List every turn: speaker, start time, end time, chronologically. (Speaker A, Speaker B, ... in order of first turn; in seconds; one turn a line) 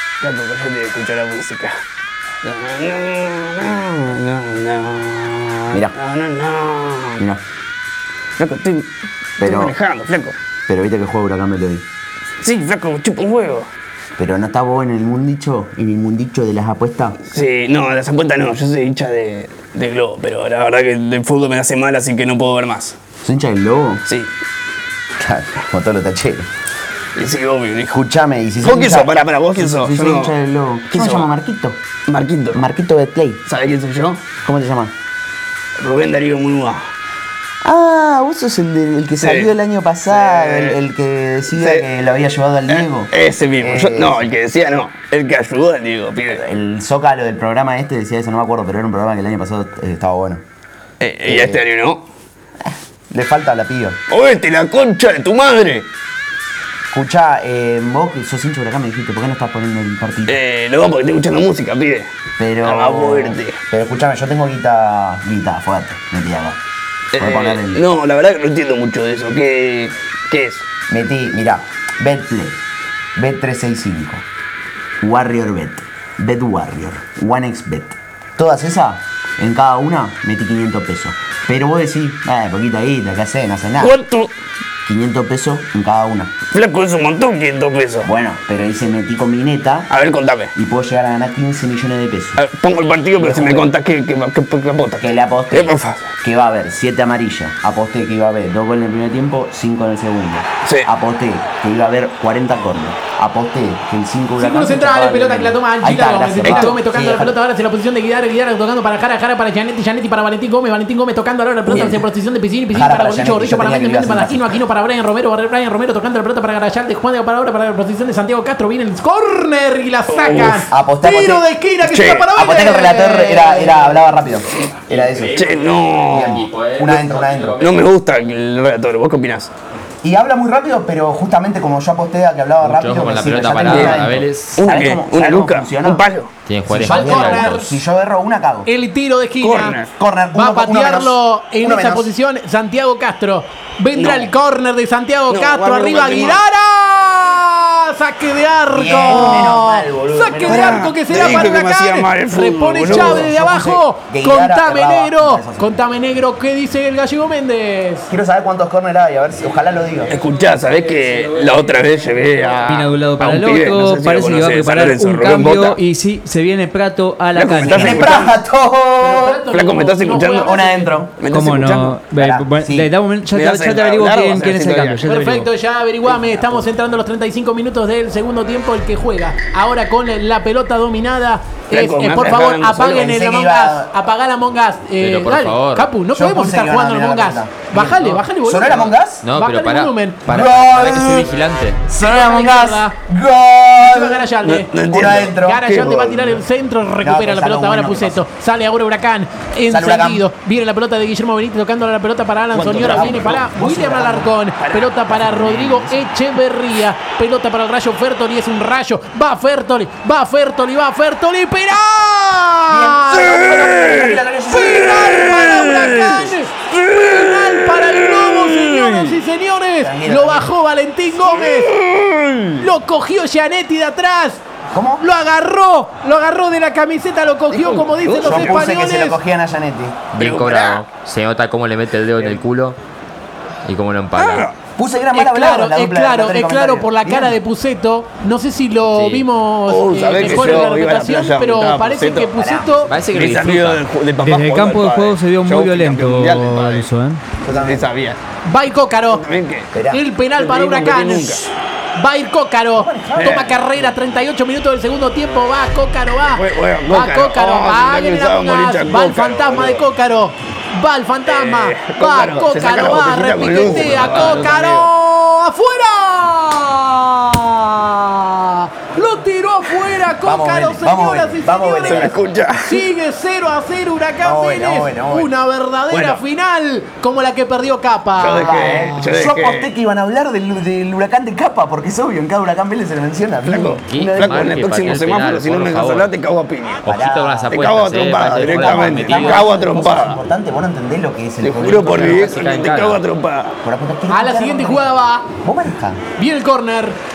Speaker A: 0.2-1.7
Speaker A: 2.4-7.2
Speaker A: 8.4-10.3
Speaker B: 9.4-9.7
Speaker B: 10.7-11.8
Speaker A: 12.4-13.7
Speaker B: 14.2-17.2
Speaker A: 17.3-22.9
Speaker B: 23.2-24.0
Speaker B: 25.2-26.5
Speaker A: 27.1-28.0
Speaker B: 27.9-31.8
Speaker A: 28.6-30.3
Speaker A: 30.9-31.3
Speaker A: 32.1-32.6
Speaker B: 32.5-33.4
Speaker A: 33.5-34.3
Speaker B: 34.4-34.9
Speaker A: 35.8-36.8
Speaker B: 37.6-44.3
Speaker A: 39.2-39.5
Speaker A: 40.1-40.8
Speaker A: 41.5-41.9
Speaker A: 42.7-46.4
Speaker B: 46.3-50.4
Speaker A: 51.0-52.0
Speaker B: 51.2-51.6
Speaker B: 52.6-54.0
Speaker A: 54.1-55.9
Speaker B: 56.9-60.4
Speaker A: 60.3-62.1
Speaker B: 62.4-66.6
Speaker A: 62.6-63.6
Speaker A: 67.1-70.6
Speaker B: 67.1-67.8
Speaker B: 70.9-72.6
Speaker B: 73.2-74.2
Speaker B: 75.0-83.9
Speaker A: 83.8-84.3
Speaker B: 84.8-86.3
Speaker A: 86.5-88.1
Speaker B: 88.0-89.9
Speaker A: 89.9-90.5
Speaker B: 90.5-92.4
Speaker A: 92.4-96.0
Speaker B: 93.2-93.7
Speaker B: 95.0-107.3
Speaker C: 104.4-124.0
Speaker B: 111.7-112.0
Speaker B: 112.7-114.6
Speaker A: 120.1-120.6
Speaker B: 120.7-121.5
Speaker A: 121.8-122.3
Speaker B: 122.3-125.4
Speaker D: 124.6-128.0
Speaker A: 125.3-126.4
Speaker B: 126.1-127.6
Speaker A: 127.6-129.5
Speaker B: 130.0-136.0
Speaker D: 132.6-134.8
Speaker A: 133.6-136.3
Speaker D: 136.4-137.6
Speaker B: 136.7-138.7
Speaker C: 136.8-137.8
Speaker C: 138.7-139.8
Speaker A: 139.4-139.9
Speaker B: 139.9-142.1
Speaker C: 140.3-158.1
Speaker A: 143.9-144.3
Speaker A: 145.3-146.4
Speaker B: 148.7-151.5
Speaker A: 149.1-149.5
Speaker A: 150.5-153.3
Speaker B: 152.8-155.8
Speaker B: 158.1-160.1
Speaker E: 160.0-168.1
Speaker A: 160.1-165.8
Speaker A: 167.3-168.3
Speaker B: 167.7-169.4
Speaker C: 169.0-170.9
Speaker A: 169.5-170.6
Speaker B: 170.3-171.1
Speaker A: 171.2-172.0
Speaker E: 171.3-175.5
Speaker B: 172.1-172.9
Speaker A: 173.3-175.0
Speaker C: 175.0-190.2
Speaker B: 176.1-176.6
Speaker A: 181.7-183.1
Speaker B: 183.1-184.0
Speaker D: 185.0-185.9
Speaker B: 186.1-187.7
Speaker D: 187.7-188.2
Speaker B: 188.4-189.2
Speaker D: 189.2-191.8
Speaker B: 190.3-191.3
Speaker B: 191.9-194.3
Speaker C: 191.9-192.9
Speaker C: 193.8-194.7
Speaker A: 194.4-196.3
Speaker B: 194.9-195.7
Speaker C: 195.4-213.2
Speaker B: 197.0-198.2
Speaker B: 199.7-200.2
Speaker A: 202.5-203.4
Speaker B: 202.8-204.3
Speaker A: 204.6-204.9
Speaker B: 205.1-206.1
Speaker B: 212.7-215.2
Speaker A: 213.2-214.2
Speaker C: 214.5-221.7
Speaker A: 214.9-219.1
Speaker B: 219.8-220.5
Speaker A: 221.3-222.6
Speaker C: 222.6-224.4
Speaker B: 224.7-225.1
Speaker C: 225.0-229.2
Speaker A: 227.5-228.6
Speaker B: 228.2-230.0
Speaker D: 230.1-232.8
Speaker A: 230.2-230.8
Speaker D: 233.6-234.5
Speaker A: 234.1-234.5
Speaker B: 234.8-237.4
Speaker C: 235.1-242.9
Speaker D: 238.9-239.2
Speaker A: 239.7-242.3
Speaker B: 242.3-242.9
Speaker D: 242.9-243.8
Speaker A: 243.1-246.9
Speaker E: 244.2-247.2
Speaker B: 247.4-247.9
Speaker A: 247.5-248.2
Speaker C: 248.4-249.2
Speaker A: 249.1-249.7
Speaker B: 249.7-250.1
Speaker C: 249.9-279.1
Speaker A: 250.3-251.4
Speaker B: 252.7-253.9
Speaker A: 253.2-253.6
Speaker A: 256.3-259.8
Speaker A: 261.2-264.9
Speaker B: 270.2-272.2
Speaker A: 271.8-272.8
Speaker B: 274.2-275.3
Speaker A: 275.9-276.2
Speaker A: 278.1-279.7
Speaker B: 278.3-284.5
Speaker A: 283.4-286.8
Speaker D: 283.8-286.1
Speaker D: 286.8-289.5
Speaker B: 286.8-287.5
Speaker A: 287.5-290.2
Speaker B: 288.4-292.5
Speaker A: 291.4-293.5
Speaker D: 291.9-293.0
Speaker B: 293.6-296.0
Speaker C: 294.1-295.3
Speaker C: 296.2-297.0